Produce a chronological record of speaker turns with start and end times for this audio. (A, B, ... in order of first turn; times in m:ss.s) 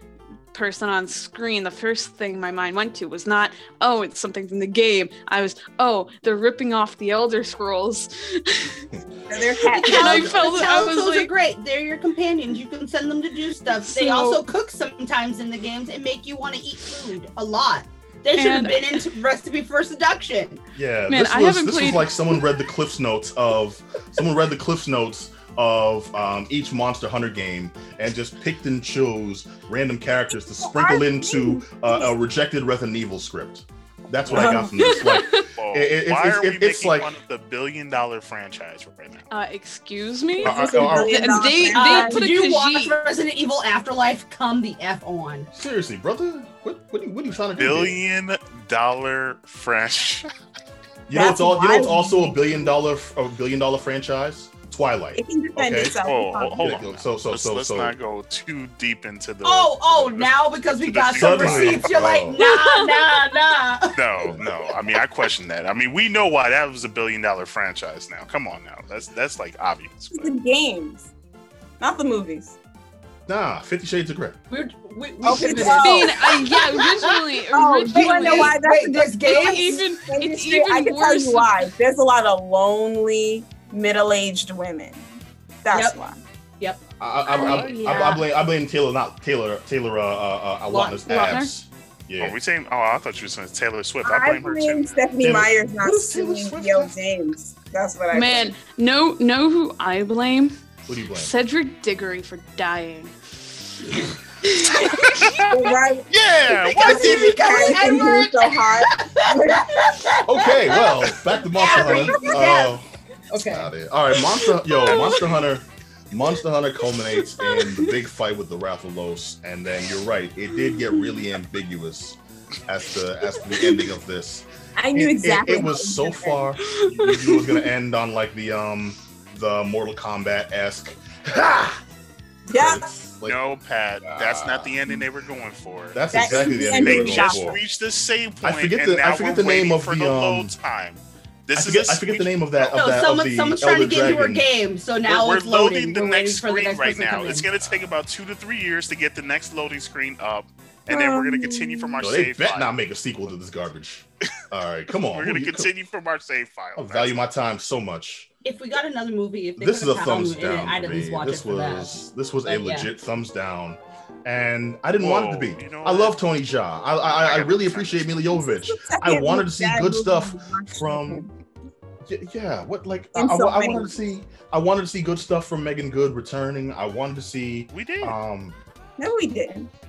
0:00.5-0:08.8 A
0:09.3-0:10.4 B
0:09.7-0:11.3 A
0:09.7-0:20.6 C
0:13.8-0:14.4 A
0:18.4-0:19.1 A
0:20.8-0:37.1 D
0:21.1-0:22.2 A
0:30.8-0:31.4 B
0:34.3-0:35.5 A
0:34.3-0:39.3 E
0:39.3-0:42.9 A
0:40.4-0:42.2 B
0:40.4-0:41.5 D
0:41.7-0:45.5 C
0:45.5-0:48.0 D
0:47.6-0:50.3 E
0:51.1-0:56.0 D
0:51.1-0:52.8 B
0:55.2-0:56.8 B
0:56.0-1:02.1 E
0:56.6-0:58.0 D
0:59.4-1:04.0 C
1:01.2-1:02.4 D
1:02.4-1:03.1 A
1:03.9-1:10.3 E
1:04.2-1:04.5 D
1:10.1-1:11.1 B
1:11.8-1:12.6 B
1:13.3-1:14.4 D
1:14.5-1:17.2 C
1:15.2-1:25.0 B
1:15.4-1:18.6 A
1:17.9-1:19.8 C
1:19.2-1:21.7 A
1:25.6-1:26.2 B
1:25.7-1:26.0 C
1:27.0-1:32.4 D
1:27.3-1:28.2 A
1:27.3-1:28.2 C
1:27.4-1:27.7 E
1:30.7-1:31.1 C
1:31.1-1:31.5 A
1:32.2-1:35.1 E
1:34.0-1:38.6 B
1:35.2-1:36.9 D
1:38.1-1:43.2 A
1:40.9-1:41.3 D
1:43.9-1:45.5 A
1:45.1-1:45.5 E
1:45.4-1:46.1 B
1:46.1-1:47.8 E
1:46.5-1:52.8 C
1:46.8-1:49.9 B
1:50.2-1:52.9 D
1:51.8-1:52.4 B
1:53.3-1:53.7 C
1:53.4-2:11.8 D
1:54.8-1:55.1 A
1:54.9-1:55.4 E
1:57.1-1:57.9 A
2:00.8-2:01.0 A
2:04.8-2:06.5 B
2:06.6-2:07.7 A
2:12.5-2:12.9 B
2:12.5-2:13.4 D
2:13.2-2:22.7 E
2:14.0-2:14.8 D
2:15.9-2:17.6 D
2:16.1-2:17.5 B
2:18.4-2:20.5 D
2:21.6-2:24.5 D
2:22.7-2:27.5 C
2:25.1-2:32.7 E
2:27.3-2:27.9 D
2:30.9-2:32.0 B
2:32.0-2:35.7 D
2:35.1-2:37.2 E
2:36.8-2:38.3 D
2:38.4-2:42.9 C
2:39.6-2:51.2 D
2:45.0-2:46.2 E
2:47.0-2:48.2 E
2:48.3-2:51.3 B
2:52.1-2:58.6 D
2:53.1-2:54.0 B
2:57.7-2:58.2 E
2:59.0-2:59.7 B